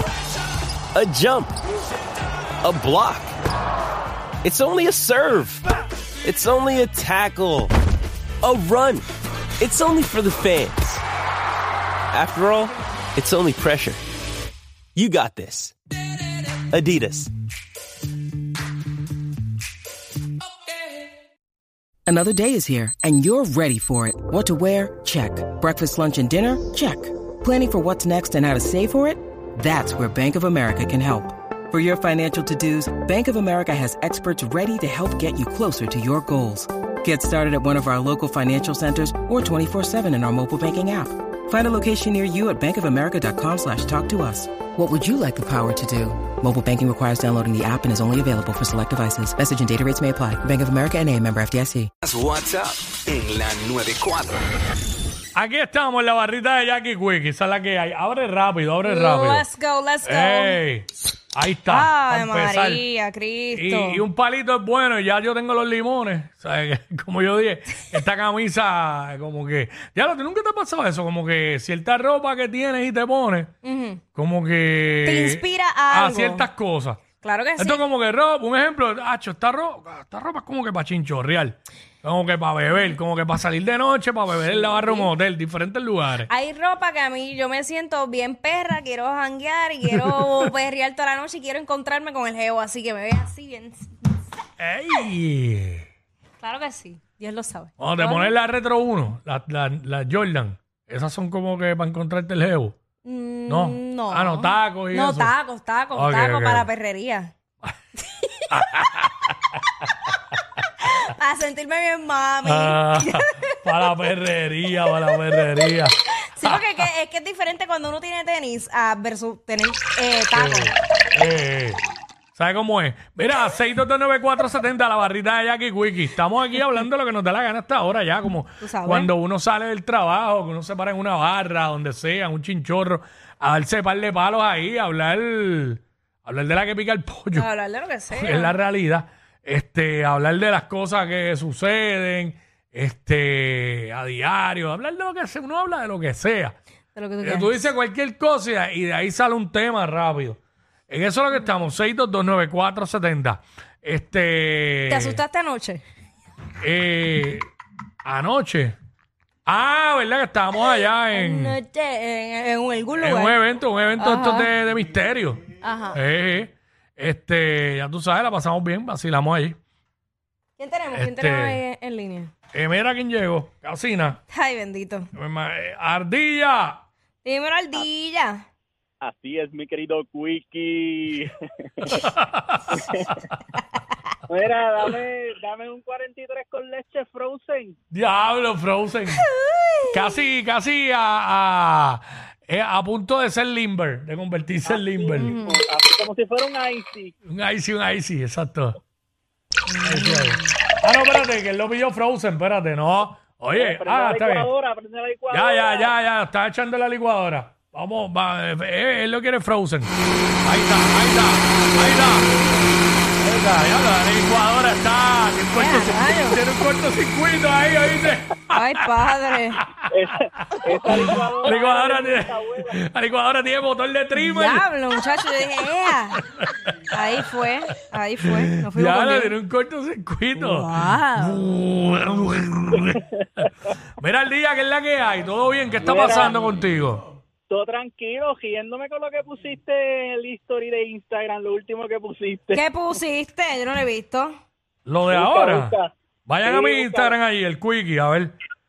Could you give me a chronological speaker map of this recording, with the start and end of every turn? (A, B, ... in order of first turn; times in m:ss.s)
0:00.9-0:01.5 A
0:02.6-0:03.3 A
0:04.4-0:05.6 A
0:06.2-0:07.7 A
0:08.4-0:09.0 A
0:09.6-0:11.0 A
0:12.1-0:14.0 A
0:14.9-0:15.7 A
0:16.7-0:17.3 A
0:22.1-0:51.9 B
0:52.0-0:54.4 C
0:55.3-0:59.4 D
0:58.8-1:00.6 E
1:00.0-1:02.8 D
1:01.7-1:04.0 E
1:03.5-1:13.5 D
1:13.6-1:14.0 E
1:14.1-1:17.0 D
1:15.0-1:16.5 E
1:17.2-1:17.8 E
1:17.6-1:26.3 D
1:24.4-1:25.1 E
1:26.3-1:33.9 E
1:29.9-1:30.5 D
1:34.6-1:35.9 D
1:36.4-1:38.3 E
1:37.8-1:42.8 D
1:43.0-1:47.3 E
1:43.5-1:45.3 D
1:45.9-1:46.7 D
1:48.5-1:49.3 D
1:50.8-1:53.5 E
1:52.4-1:56.6 D
1:56.2-2:00.8 E
2:00.3-2:01.8 D
2:02.3-2:17.5 D
2:08.6-2:09.1 E
2:17.3-2:18.5 E
2:18.1-2:26.6 D
2:26.9-2:27.7 E
2:27.2-2:35.2 D
2:34.9-2:35.8 E
2:36.6-2:37.5 D
2:38.0-2:38.8 D
2:39.4-2:41.6 D
2:41.1-2:43.4 E
2:43.0-2:45.4 D
2:44.0-2:44.5 E
2:45.6-2:46.0 E
2:45.9-2:49.6 D
2:50.6-2:52.3 E
2:50.9-2:51.6 D
2:52.5-2:54.2 D
2:54.3-2:55.1 E
2:55.1-2:56.8 D
2:57.2-2:58.4 E
2:59.0-3:02.0 F
3:01.9-3:02.8 D
3:02.7-3:03.2 F
3:04.3-3:07.8 F
3:07.9-3:09.3 D
3:09.1-3:09.9 E
3:09.9-3:15.3 D
3:14.6-3:17.1 F
3:15.1-3:15.6 E
3:17.2-3:18.8 D
3:19.7-3:20.5 E
3:19.8-3:24.5 D
3:23.5-3:26.0 F
3:25.3-3:29.9 D
3:30.4-3:32.4 D
3:33.2-3:38.9 D
3:35.5-3:36.4 E
3:38.5-3:39.6 E
3:39.6-3:39.9 D
3:39.9-3:42.7 F
3:40.6-3:44.6 D
3:44.1-3:46.2 E
3:46.2-3:46.5 D
3:46.9-3:49.3 E
3:48.2-3:53.0 D
3:50.4-3:51.4 E
3:54.0-3:57.0 D
3:55.8-3:56.5 F
3:57.5-4:02.6 F
4:02.5-4:04.4 E
4:04.8-4:05.7 D
4:05.1-4:05.9 F
4:06.3-4:08.4 D
4:06.4-4:07.1 F